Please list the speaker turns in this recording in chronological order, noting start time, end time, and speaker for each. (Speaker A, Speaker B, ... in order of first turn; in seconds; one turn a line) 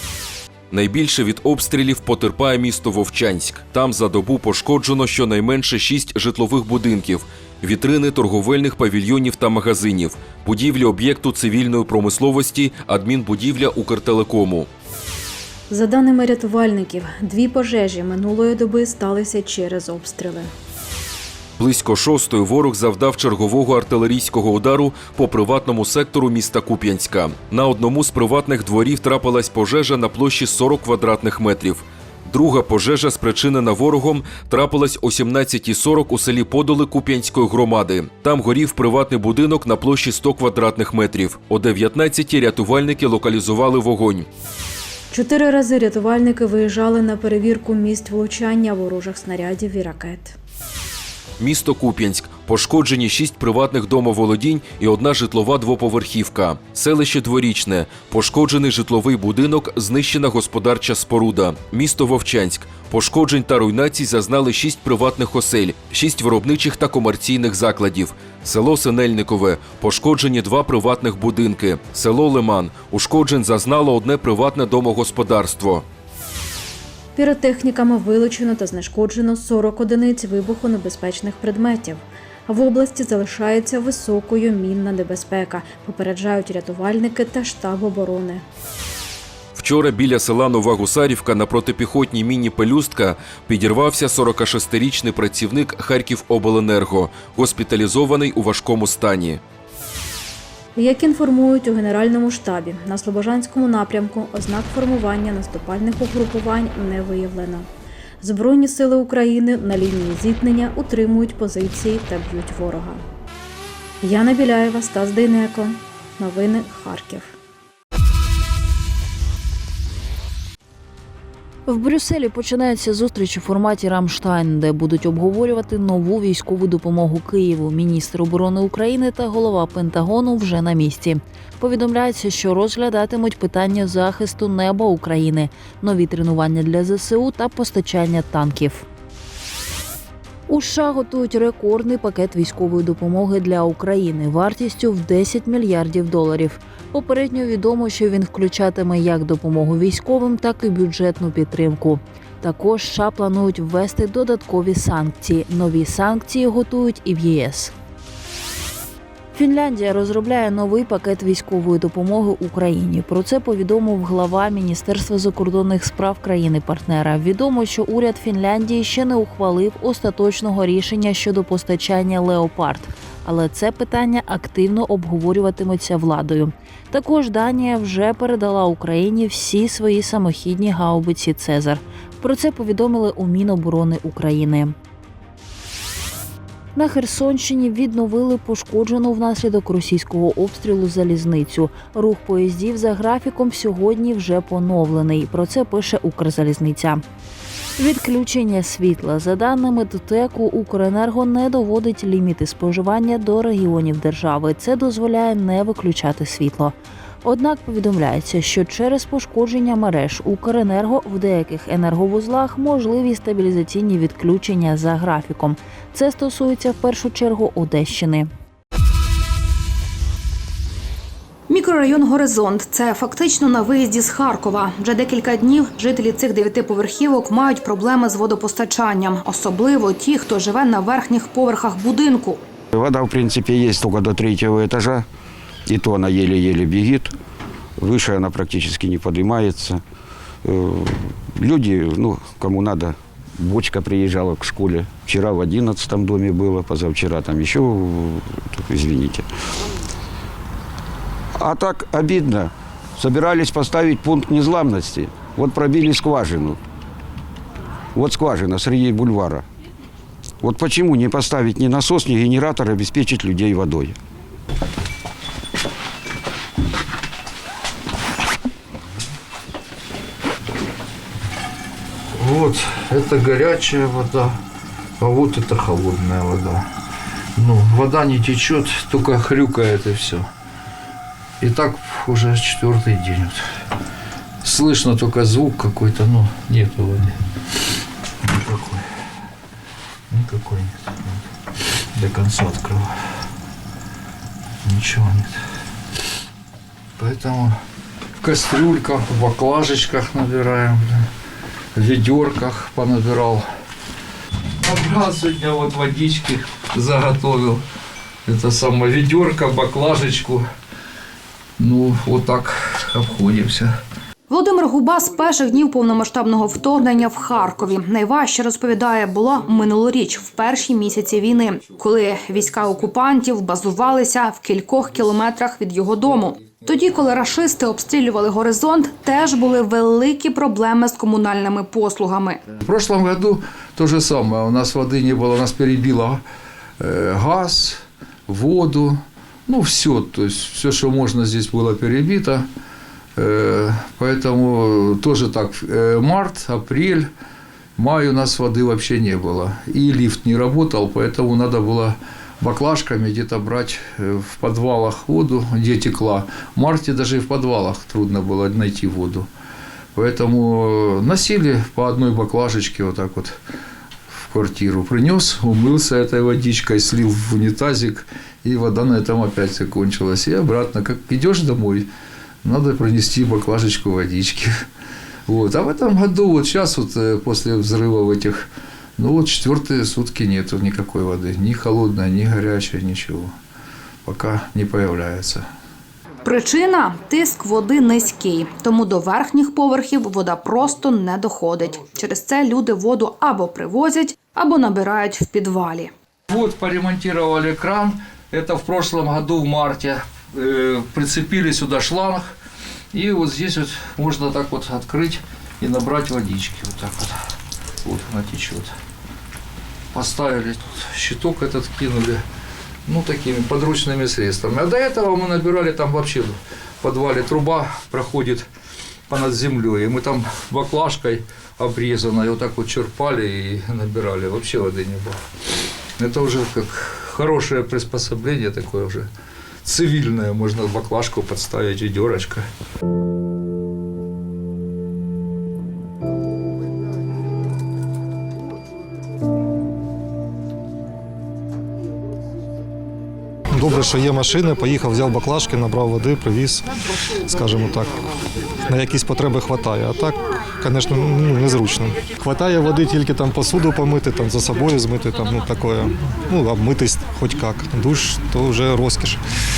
Speaker A: 0.7-14.7
Speaker B: 15.7-20.5
Speaker A: 21.6-44.3
Speaker B: 45.1-50.4
Speaker A: 51.4-75.8
Speaker B: 77.1-88.4
Speaker A: 89.5-99.4
Speaker B: 100.7-107.7
Speaker B: 108.2-113.0
Speaker B: 114.0-117.3
Speaker C: 121.7-138.8
Speaker C: 140.5-157.7
Speaker C: 159.3-184.7
Speaker C: 186.8-197.0
Speaker C: 197.8-218.3
Speaker D: 221.5-232.4
Speaker E: 232.7-235.1
Speaker E: 235.7-237.1
Speaker E: 237.8-239.8
Speaker E: 240.5-249.2
Speaker E: 251.4-256.6
Speaker E: 257.9-259.4
Speaker E: 260.4-264.0
Speaker F: 272.1-274.4
Speaker F: 275.0-276.6
Speaker F: 277.4-280.3
Speaker F: 281.4-283.4
Speaker F: 284.4-287.2
Speaker F: 288.2-288.8
Speaker F: 290.1-291.2
Speaker F: 291.9-292.9
Speaker F: 294.6-295.4
Speaker F: 297.0-297.6
Speaker F: 298.2-301.1
Speaker F: 301.7-303.5
Speaker F: 304.6-307.6
Speaker F: 308.2-310.4
Speaker F: 311.6-313.7
Speaker D: 314.3-332.4
Speaker F: 332.6-336.2
Speaker F: 336.8-342.5
Speaker F: 343.2-347.1
Speaker F: 347.8-359.3
Speaker F: 359.9-363.4
Speaker F: 364.1-371.9
Speaker F: 372.4-374.6
Speaker F: 375.3-378.5
Speaker F: 379.0-383.3
Speaker F: 384.0-385.4
Speaker D: 386.2-395.9
Speaker F: 396.3-402.3
Speaker F: 402.9-407.2
Speaker F: 407.8-408.7
Speaker F: 409.9-412.2
Speaker F: 412.9-418.5
Speaker F: 419.1-425.2
Speaker F: 426.0-429.1
Speaker F: 429.6-432.5
Speaker G: 443.5-446.6
Speaker G: 447.3-448.0
Speaker G: 448.7-459.2